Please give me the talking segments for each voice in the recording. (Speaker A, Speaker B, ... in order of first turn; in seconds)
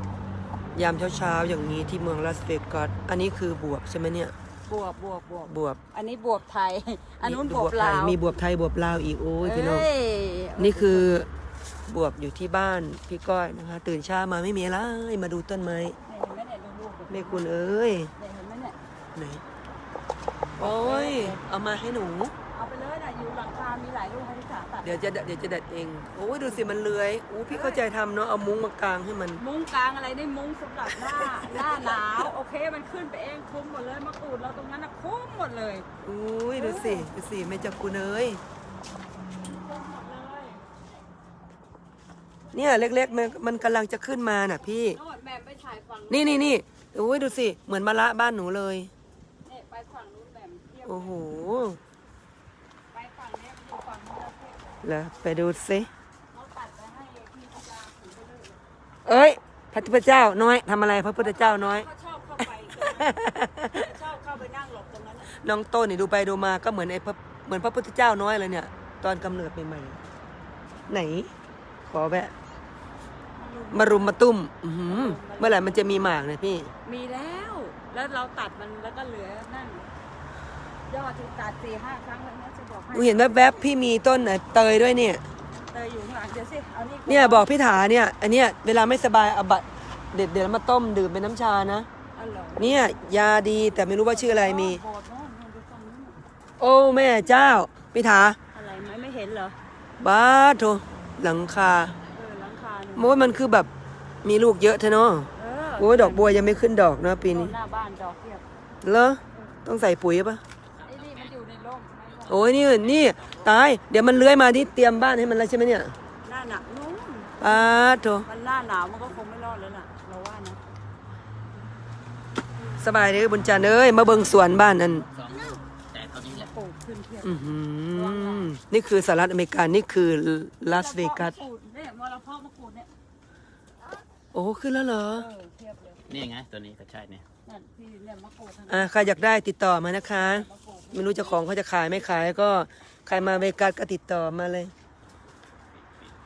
Speaker A: 0.7-4.3, 5.5-5.8, 7.2-9.9, 10.6-11.3, 11.9-16.0, 17.1-18.1, 19.1-19.4, 20.6-22.3, 24.8-29.4, 30.9-32.3, 36.0-38.4, 42.5-45.0, 46.1-48.9, 50.9-51.8, 54.8-55.9, 59.0-61.9, 62.7-63.9, 65.3-70.0, 70.9-71.3, 71.9-72.3, 73.7-76.7, 82.9-85.2, 87.1-91.9, 92.6-94.8, 96.6-98.4, 100.0-102.0, 103.0-103.7, 104.2-107.6, 108.8-110.4, 112.3-115.9, 117.4-118.3, 122.8-125.1, 127.2-131.3, 134.3-135.3, 138.7-144.7
Speaker B: 4.7-8.4, 9.4-11.2, 16.1-17.5, 18.2-18.8, 20.6-21.4, 22.5-25.0, 27.5-27.8, 29.4-35.9, 36.5-37.1, 39.5-40.7, 42.5-43.4, 44.8-46.5, 49.5-51.1, 52.9-54.8, 56.3-58.6, 61.2-65.3, 73.3-74.2, 74.9-75.9, 76.8-79.9, 80.9-83.6, 85.6-87.5, 92.2-92.8, 94.0-96.2, 98.5-99.6, 102.1-103.2, 105.4-106.3, 107.3-108.5, 109.3-109.6, 110.8-112.5, 116.2-120.6, 126.3-128.5, 130.7-132.9, 135.2-136.1, 137.4-139.0, 140.1-141.4
Speaker C: 110.7-111.3, 112.3-113.5, 125.1-126.5, 136.1-137.2